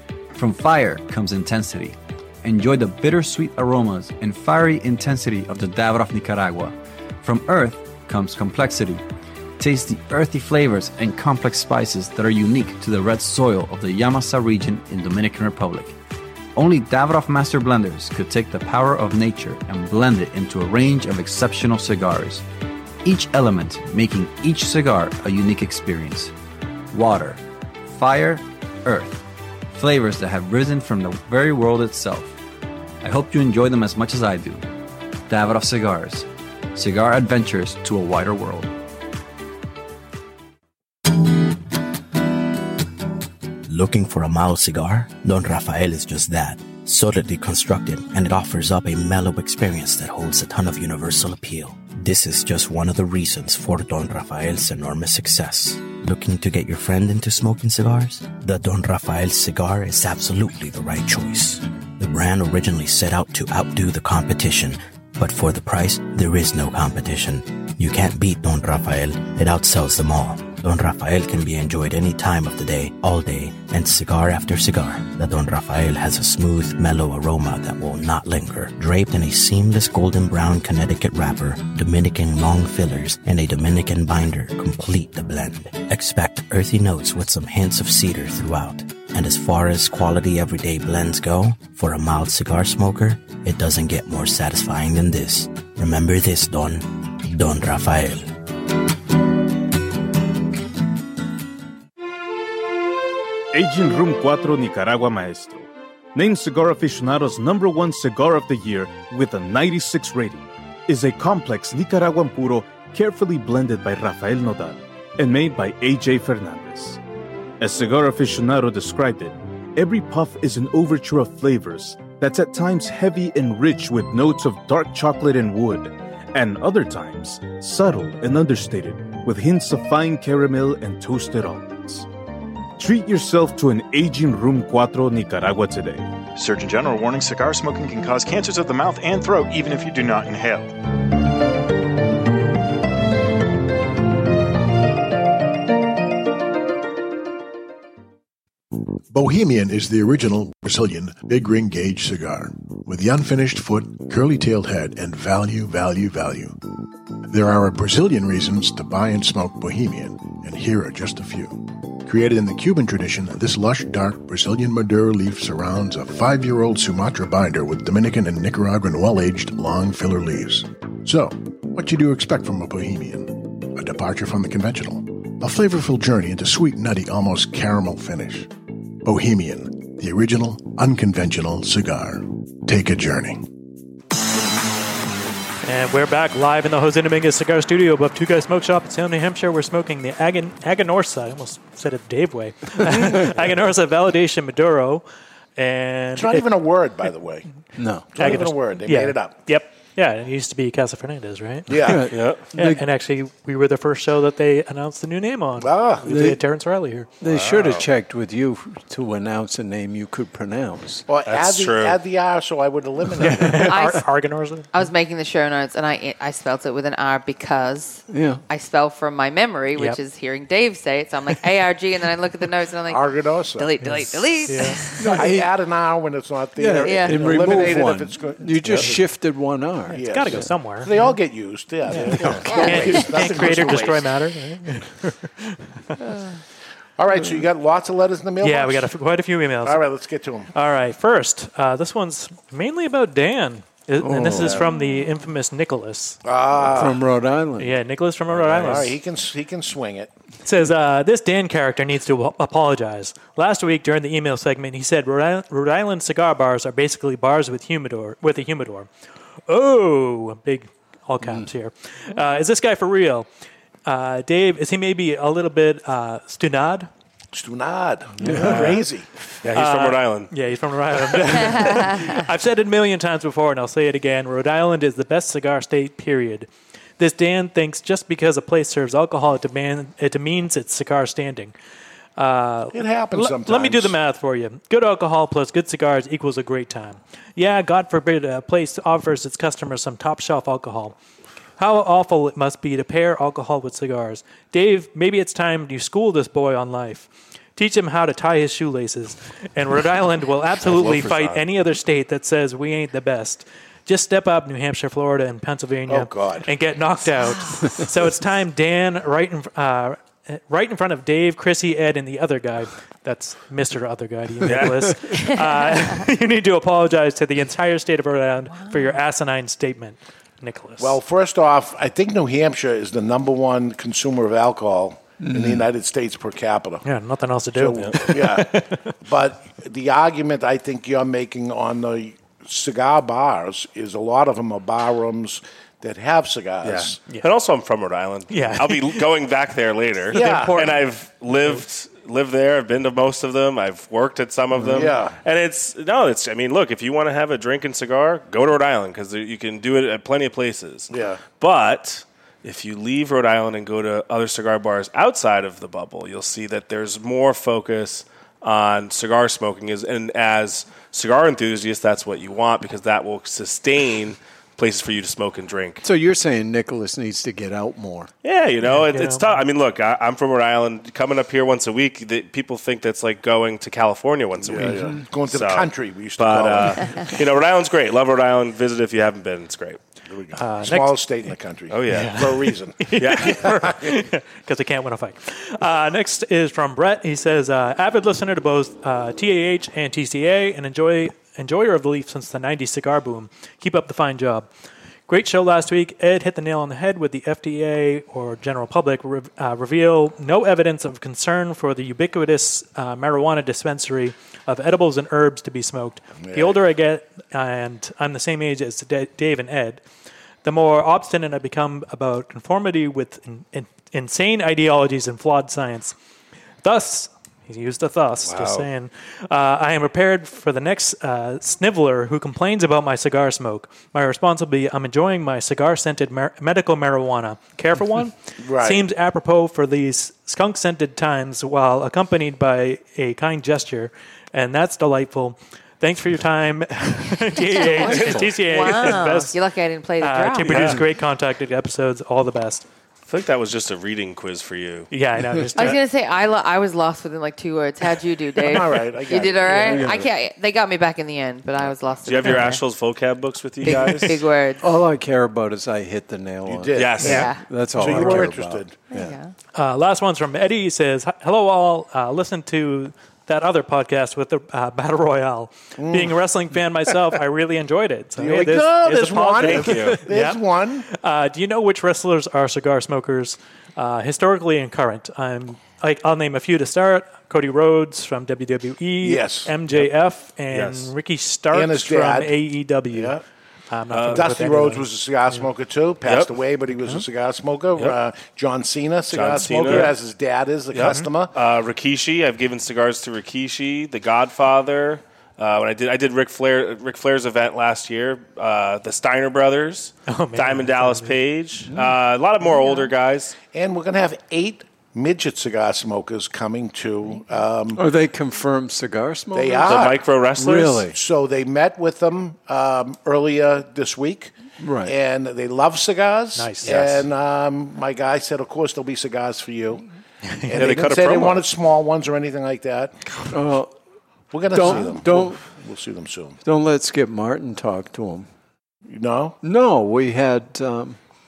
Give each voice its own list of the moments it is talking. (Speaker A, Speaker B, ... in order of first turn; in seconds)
Speaker A: 0.3-9.0, 9.6-15.9, 16.5-22.4, 23.0-26.3, 26.9-32.4, 33.0-34.6, 35.3-38.7
Speaker B: 43.7-98.3
Speaker C: 103.5-117.0, 117.6-132.1, 132.8-136.1
Speaker D: 136.3-140.7
Speaker E: 149.1-156.6, 157.3-178.5, 179.0-183.5
Speaker F: 185.6-195.0, 195.6-196.5, 198.2-201.9, 202.5-207.1, 213.2-214.8, 219.7-220.0, 223.8-224.9, 229.9-231.1, 231.9-235.8, 238.4-239.8, 240.5-246.2, 247.6-249.0, 250.4-258.9, 259.5-263.3, 263.8-266.9, 268.3-268.7, 269.5-276.5, 277.0-281.5, 282.1-290.9, 291.6-321.0, 326.8-328.9, 338.3-339.1, 340.1-341.6, 368.6-369.4, 380.4-381.1, 381.9-394.5, 395.1-409.8, 410.4-415.9, 416.6-439.4, 440.0-442.6, 444.9-445.8, 459.5-483.2, 483.7-485.4, 486.7-487.0, 489.6-489.9, 500.1-501.2, 516.4-517.0
Speaker G: 192.8-193.3, 197.8-198.2, 201.7-202.8, 206.0-206.4, 207.2-211.0, 218.1-218.4, 224.9-225.5, 226.6-230.5, 231.9-233.1, 244.0-244.7, 246.6-247.8, 261.2-261.5, 268.2-268.7, 314.6-314.9, 325.2-325.7, 365.8-368.1, 374.6-375.0, 437.9-438.2, 449.6-450.0, 454.6-459.2, 501.7-501.9, 507.7-511.0, 514.6-514.9, 523.3-523.7, 524.5-525.4, 526.4-528.3, 529.4-531.0
Speaker H: 196.1-197.4, 198.1-199.4, 201.7-202.1, 205.6-206.1, 211.1-213.7, 222.9-223.7, 225.0-229.0, 229.9-234.1, 237.0-238.9, 239.6-240.5, 246.2-247.0, 248.5-250.1, 267.3-269.1, 282.7-284.0, 305.9-306.5, 320.8-326.8, 327.5-337.0, 340.1-340.7, 344.6-345.2, 350.9-351.2, 374.4-377.1, 380.1-383.5, 406.2-406.6, 428.4-428.8, 448.4-450.0, 456.4-458.8, 465.8-466.2, 468.2-470.9, 479.0-479.5, 481.5-482.4, 482.9-483.2, 484.1-491.3, 503.5-507.8, 509.3-510.1, 510.9-514.3, 514.9-519.8, 520.5-522.9, 524.3-526.4, 528.9-529.4
Speaker I: 202.1-202.4, 207.2-207.8, 211.2-212.0, 268.3-268.8, 269.4-270.3, 300.6-301.4, 314.4-314.9, 336.6-365.8, 368.2-379.8, 381.7-382.4, 382.9-383.8, 418.2-418.7, 437.9-438.9, 440.5-440.8, 443.1-444.9, 452.0-454.2, 456.8-457.3, 469.4-470.0, 480.5-480.9, 483.9-484.3, 486.0-486.3, 489.1-489.9, 490.7-503.3, 509.6-510.8, 516.6-516.9, 520.5-521.5
Speaker J: 213.6-214.1, 214.7-223.0, 223.5-225.1, 226.8-227.4, 271.6-272.2, 318.5-318.9, 437.4-440.8, 445.6-452.6, 453.6-454.6, 457.0-457.4, 458.9-459.3